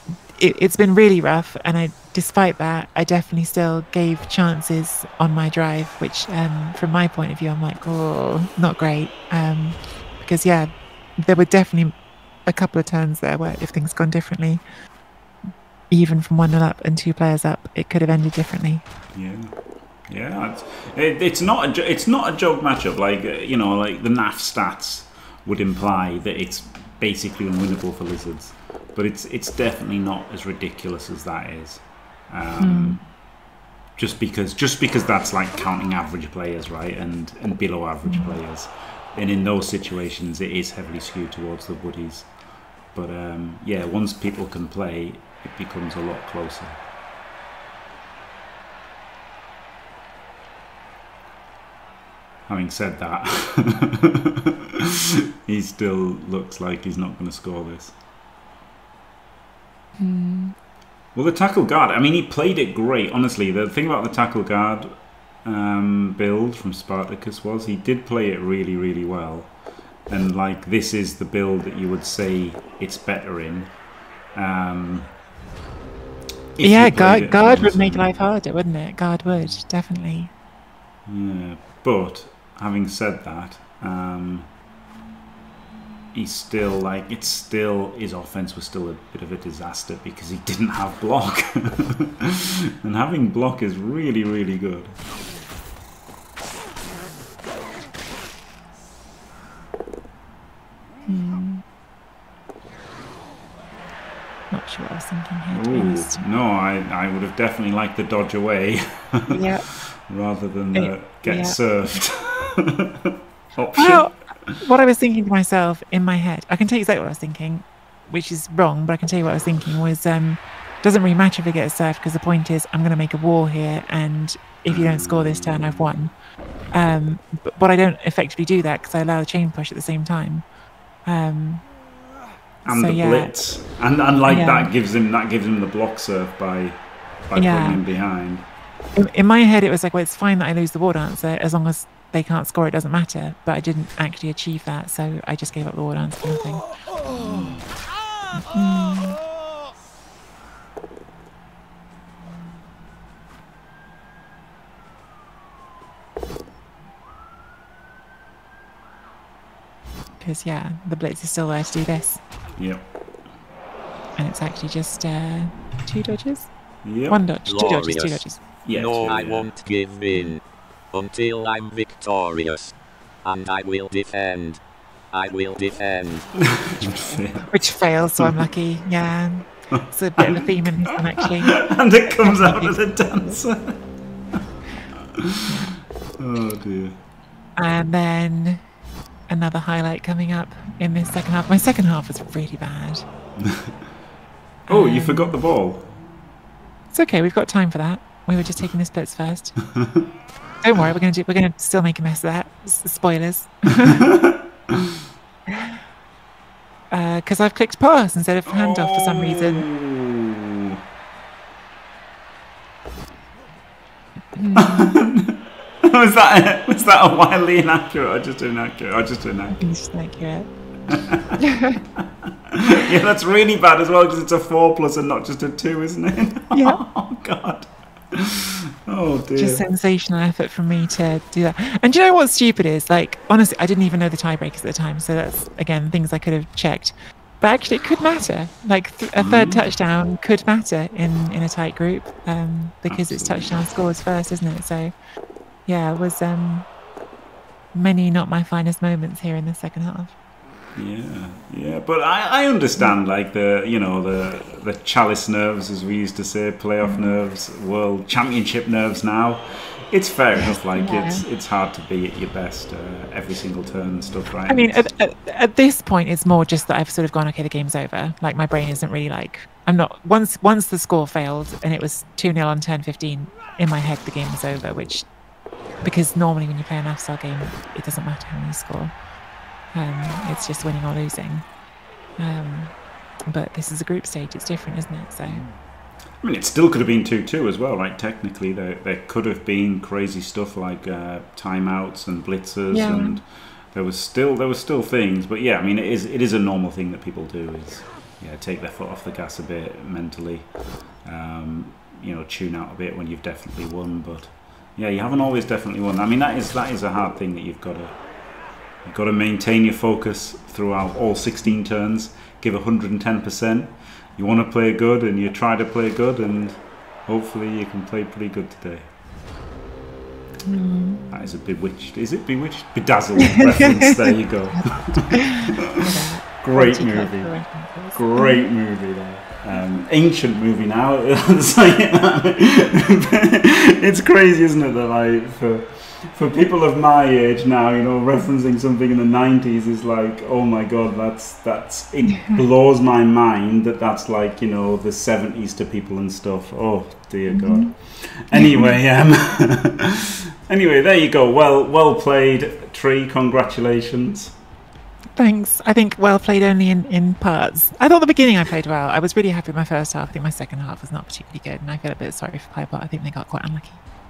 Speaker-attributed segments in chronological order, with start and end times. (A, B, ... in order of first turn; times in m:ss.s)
0:00.3-0:14.6 A
0:15.9-0:18.8 A
0:19.1-0:33.2 B
0:32.6-0:33.0 A
0:34.0-0:46.8 B
0:38.1-0:38.3 A
0:52.5-0:54.4 B
0:55.4-0:58.0 B
1:00.0-1:00.5 A
1:01.2-1:15.1 B
1:16.6-1:18.2 B
1:16.6-1:20.3 A
1:21.1-1:24.5 B
1:26.1-1:35.0 B
1:41.1-1:41.6 A
1:44.5-1:46.2 A
1:45.5-1:54.6 B
1:49.3-1:49.6 A
1:50.7-1:51.6 A
1:53.8-2:06.1 A
2:04.7-2:05.9 B
2:06.7-2:10.4 A
2:11.0-2:11.7 A
2:12.6-2:13.3 A
2:12.7-2:18.5 B
2:14.3-2:14.7 A
2:17.4-2:17.8 A
2:19.0-2:26.7 A
2:27.2-2:27.7 B
2:28.4-2:29.2 A
2:40.2-2:42.2 A
2:42.6-2:42.9 B
2:44.2-2:46.5 A
2:46.8-2:47.2 B
2:47.1-2:48.4 A
2:47.5-2:54.6 C
2:48.6-2:49.5 B
2:55.1-2:56.5 C
2:56.4-2:57.5 B
2:56.9-3:03.4 A
2:59.7-3:03.8 B
3:05.2-3:05.6 B
3:05.5-3:05.7 A
3:06.2-3:07.0 B
3:07.6-3:08.6 A
3:09.3-3:13.0 A
3:13.4-3:13.7 B
3:14.7-3:15.4 A
3:14.7-3:16.0 B
3:16.9-3:19.6 A
3:19.6-3:20.1 B
3:20.6-3:24.0 A
3:24.1-3:24.8 B
3:25.5-3:25.8 A
3:26.9-3:29.7 A
3:28.5-3:30.7 B
3:34.4-3:35.0 A
3:34.6-3:39.6 B
3:39.5-3:40.5 A
3:40.9-3:41.4 B
3:41.4-3:41.8 A
3:42.5-3:49.6 B
3:46.5-3:46.8 A
3:49.4-4:04.9 A
3:59.2-3:59.7 B
4:02.9-4:03.6 B
4:05.7-4:06.7 A
4:07.7-4:10.1 A
4:10.8-4:24.8 B
4:20.7-4:21.2 A
4:24.5-4:35.1 A
4:35.8-4:38.9 A
4:39.7-4:41.5 A
4:42.2-4:42.8 A
4:43.3-4:45.4 A
4:45.3-4:45.6 B
4:46.2-5:08.0 B
4:52.7-4:53.2 A
5:08.8-5:18.9 B
5:20.5-5:21.1 A
5:21.1-5:25.8 B
5:25.1-5:28.4 A
5:26.4-5:54.4 B
5:42.1-5:42.4 A
5:47.3-5:48.8 A
5:55.2-6:03.8 A